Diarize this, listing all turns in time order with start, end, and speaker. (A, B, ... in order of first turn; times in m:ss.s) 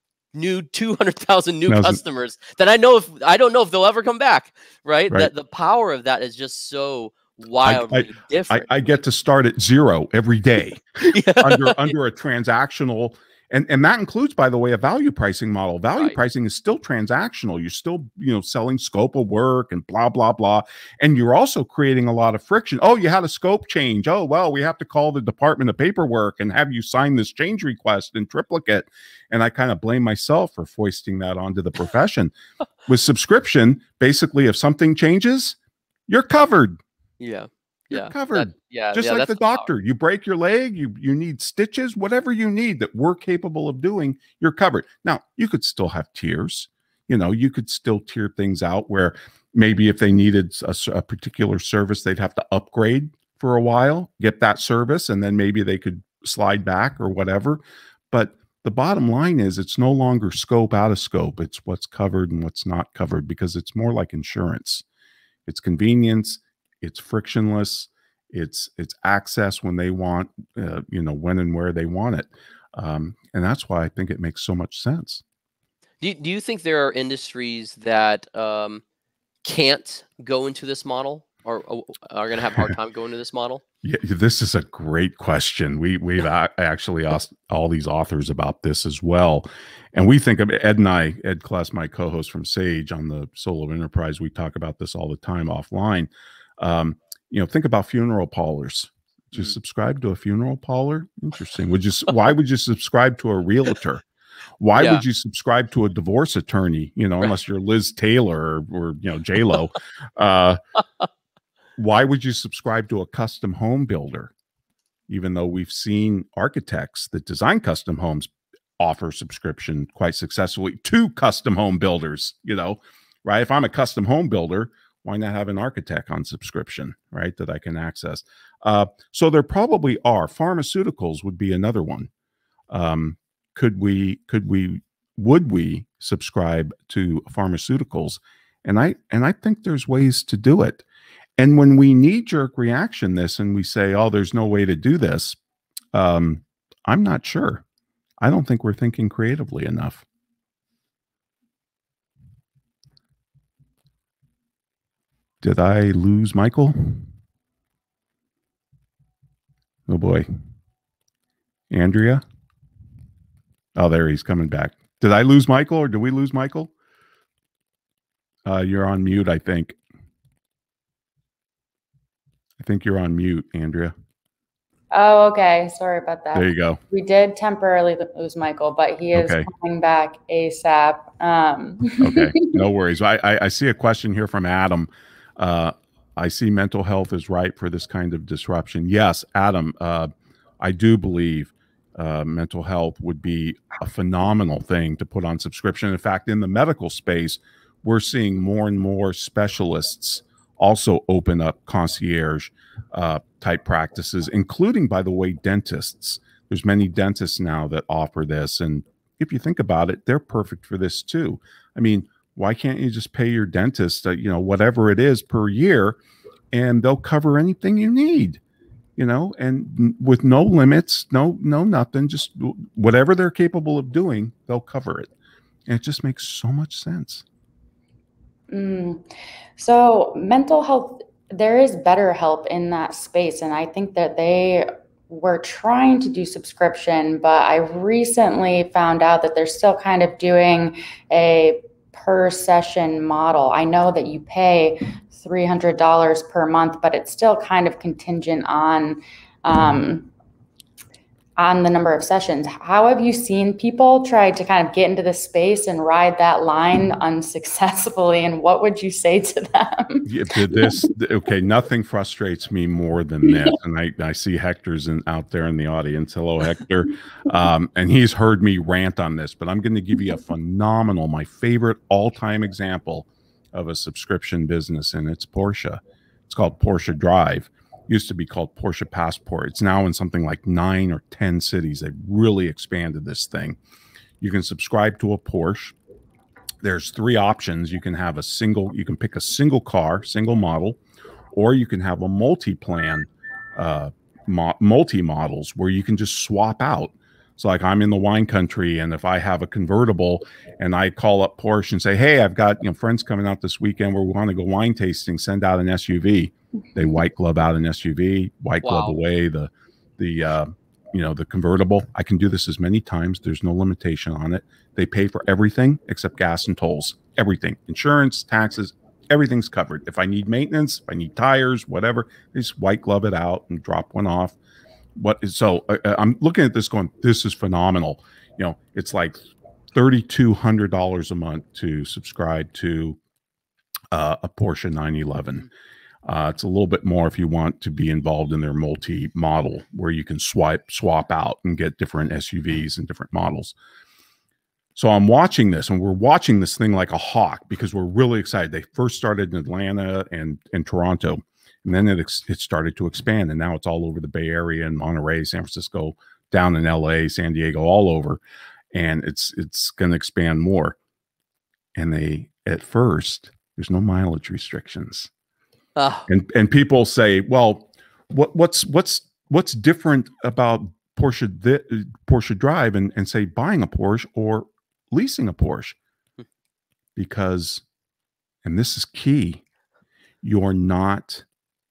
0:00.3-0:08.7 A
0:01.7-0:02.0 B
0:07.6-0:10.8 B
0:11.0-0:11.9 A
0:11.4-0:32.3 B
0:32.9-0:35.6 B
0:36.1-0:36.8 B
0:37.2-0:39.7 A
0:37.9-1:04.8 B
1:05.5-1:15.2 B
1:16.0-1:18.8 A
1:19.4-1:23.6 A
1:23.8-1:44.0 B
1:44.6-1:50.6 B
1:44.8-1:45.0 A
1:51.8-1:54.3 B
1:55.1-2:12.1 B
2:12.7-2:20.8 B
2:21.4-2:25.4 B
2:25.9-2:27.6 B
2:28.2-2:30.0 B
2:35.4-2:37.1 B
2:39.9-2:40.3 B
2:41.7-2:42.2 B
2:43.8-2:46.7 B
2:48.5-2:49.8 B
2:52.6-2:53.9 B
2:54.9-3:02.6 C
2:56.3-2:56.8 B
2:59.1-2:59.5 B
3:02.0-3:36.0 B
3:36.5-3:38.4 B
3:39.0-3:45.1 B
3:45.7-3:47.2 B
3:48.5-3:49.0 C
3:49.6-4:10.1 C
4:11.4-4:20.9 C
4:20.0-4:43.6 B
4:23.3-4:23.6 C
4:44.2-4:45.8 B
4:46.6-4:50.8 B
4:51.3-5:24.4 B
5:08.6-5:09.0 A
5:25.0-5:29.2 B
5:29.7-5:33.0 B
5:33.9-5:35.5 B
5:36.0-5:43.6 B
5:44.8-5:58.2 B
5:58.7-6:00.8 B
6:01.8-6:05.1 B
6:05.8-6:06.1 A
6:06.1-6:15.8 B
6:17.0-6:17.6 B
6:18.4-6:19.4 B
6:20.2-6:21.2 B